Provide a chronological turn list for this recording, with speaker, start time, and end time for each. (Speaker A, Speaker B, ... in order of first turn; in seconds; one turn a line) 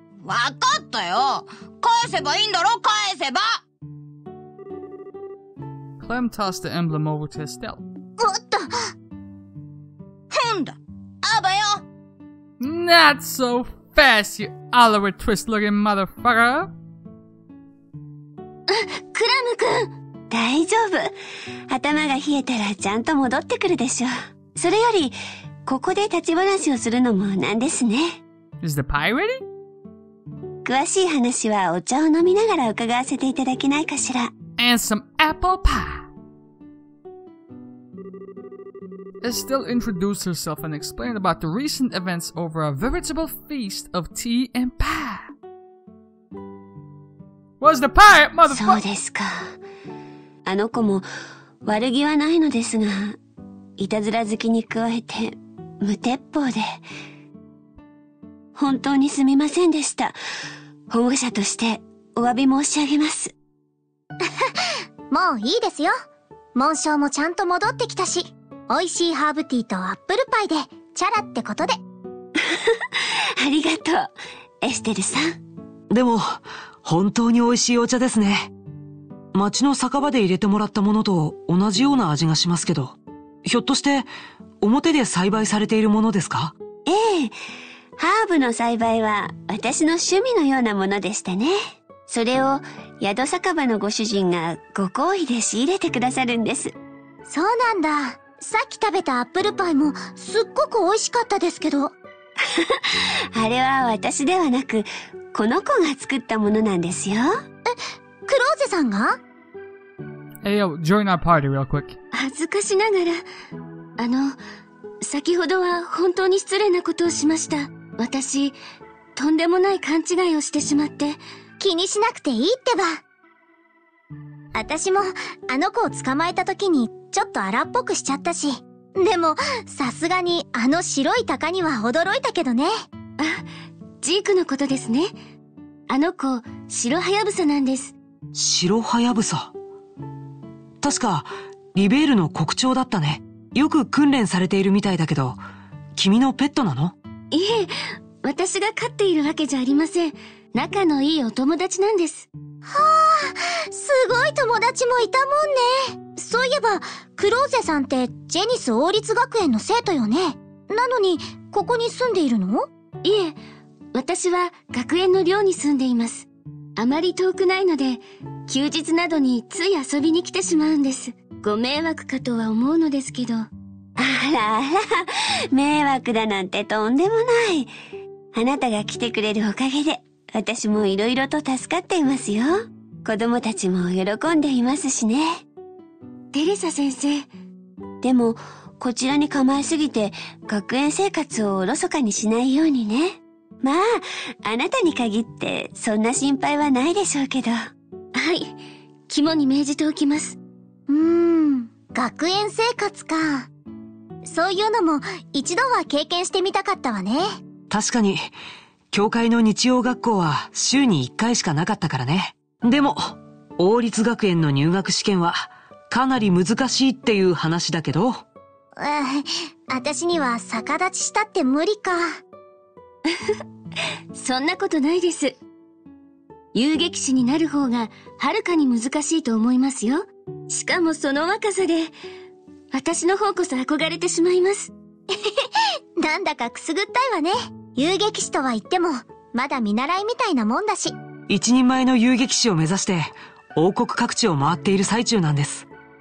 Speaker A: 0.2-3.6
Speaker B: 6.0-7.8
Speaker C: 8.2-8.9
Speaker A: 10.3-11.8
Speaker B: 12.6-16.7
Speaker D: 18.7-19.9
Speaker E: 20.3-21.1
Speaker E: 21.7-25.1
Speaker E: 25.7-28.2
Speaker B: 28.6-29.4
Speaker E: 30.6-34.3
Speaker B: 34.6-36.1
Speaker B: 39.2-45.3
Speaker B: 47.6-48.8
Speaker E: 48.5-49.5
Speaker E: 50.5-51.0
Speaker E: 51.6-53.2
Speaker E: 53.8-56.6
Speaker E: 58.6-60.2
Speaker E: 60.9-63.3
Speaker C: 64.2-65.9
Speaker C: 66.5-71.8
Speaker E: 72.4-75.4
Speaker F: 75.9-78.5
Speaker F: 79.3-84.1
Speaker F: 84.6-86.5
Speaker E: 86.9-87.4
Speaker E: 88.0-91.6
Speaker E: 92.1-96.7
Speaker C: 97.3-101.9
Speaker E: 102.5-107.3
Speaker C: 107.7-109.2
Speaker B: 110.4-112.0
Speaker D: 112.1-113.2
Speaker D: 114.0-114.4
Speaker D: 115.0-118.6
Speaker D: 119.2-121.2
Speaker C: 121.6-123.0
Speaker C: 124.5-132.8
Speaker D: 133.2-133.5
Speaker D: 134.0-135.2
Speaker D: 135.9-138.0
Speaker F: 138.3-139.5
Speaker F: 140.8-145.4
Speaker F: 146.0-146.9
Speaker D: 147.3-152.3
Speaker C: 152.7-162.7
Speaker D: 163.0-163.4
Speaker D: 163.9-173.5
Speaker E: 174.0-177.7
Speaker E: 178.3-185.4
Speaker D: 186.3-187.3
Speaker E: 188.0-197.7
Speaker D: 198.2-198.6
Speaker D: 199.1-200.4
Speaker C: 200.9-203.5
Speaker C: 204.2-207.4
Speaker F: 207.7-208.3
Speaker F: 208.9-218.2
Speaker C: 218.8-222.2
Speaker D: 223.1-223.4
Speaker D: 224.1-225.4
Speaker D: 226.5-231.9
Speaker D: 232.7-234.7
Speaker C: 235.1-241.0
Speaker F: 241.3-245.7